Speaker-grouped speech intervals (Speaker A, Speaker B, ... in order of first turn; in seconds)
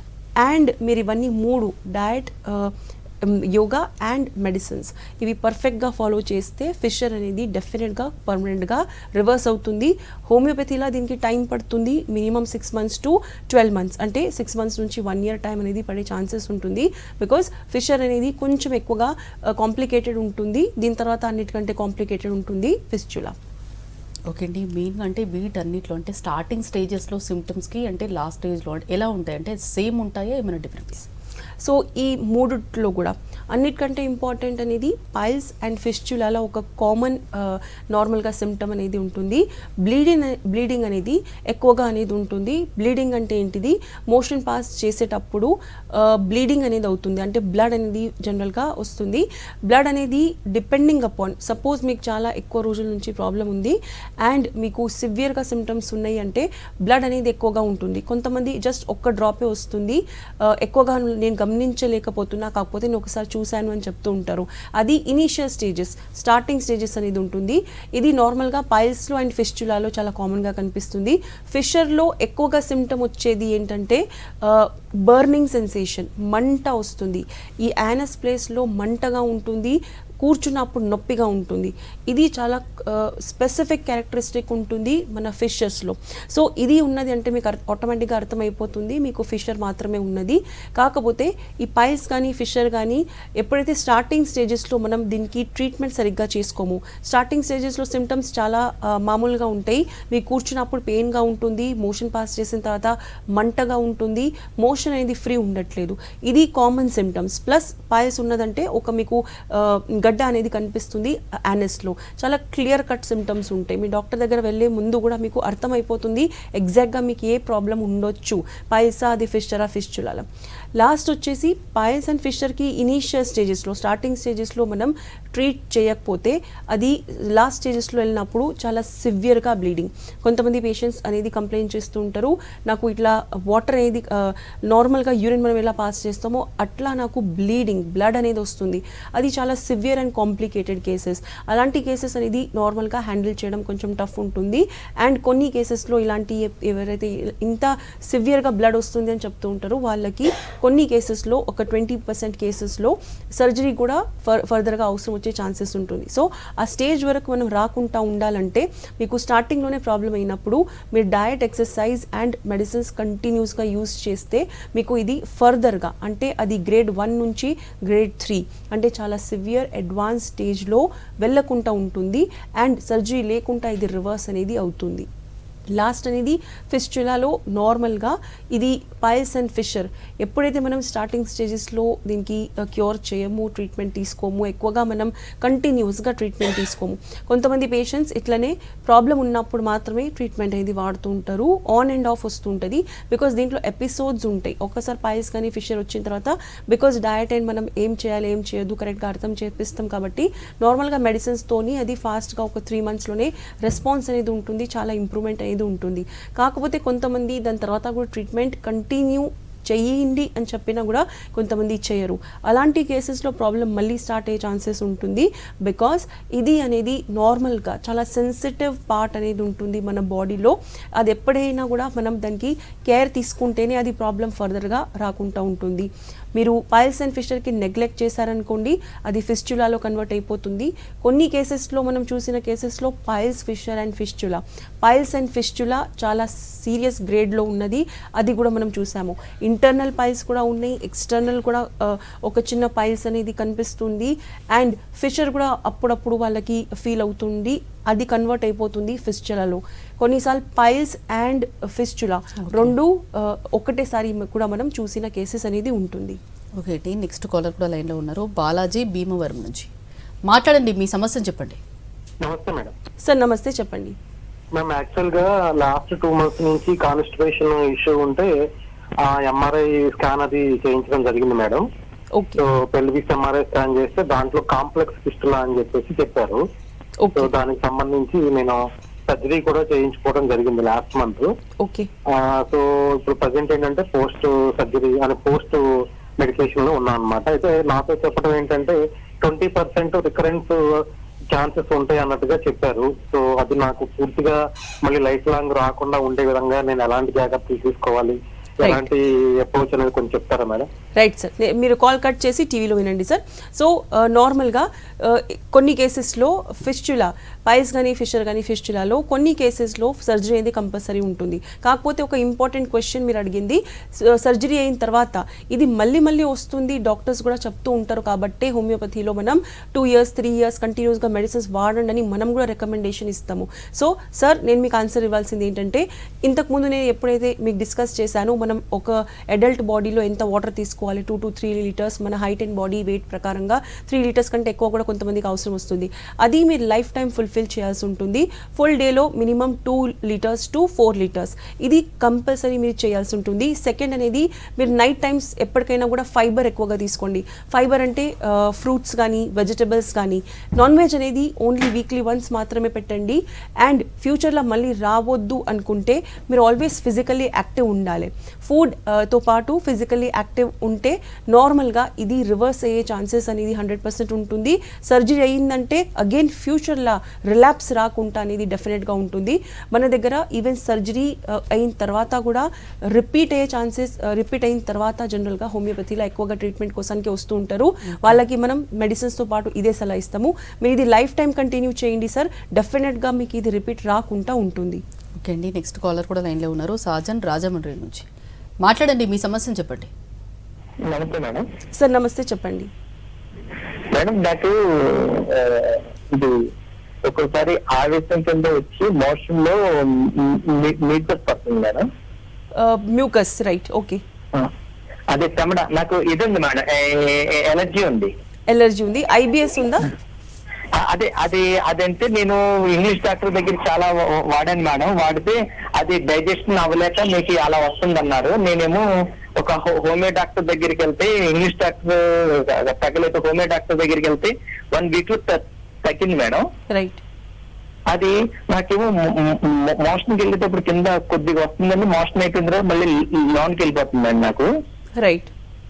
Speaker A: 0.4-23.4, 31.6-175.1, 175.7-256.2, 263.0-264.0, 272.1-272.4, 277.0-277.3, 281.6-281.9, 298.6-298.9, 301.0-384.8, 391.8-392.7, 402.6-404.0, 408.5-409.9, 426.7-427.0, 435.0-435.3
Speaker B: 24.3-31.1, 252.5-252.7, 256.6-259.7, 260.3-261.6, 385.2-388.1, 388.6-389.9
Speaker C: 262.2-262.7, 264.6-268.3, 269.0-271.6, 272.4-276.4, 277.2-281.3, 282.1-285.6, 286.2-300.7
Speaker D: 390.9-391.4, 393.9-396.4, 397.1-401.9, 405.1-408.1, 410.8-426.5, 427.9-434.5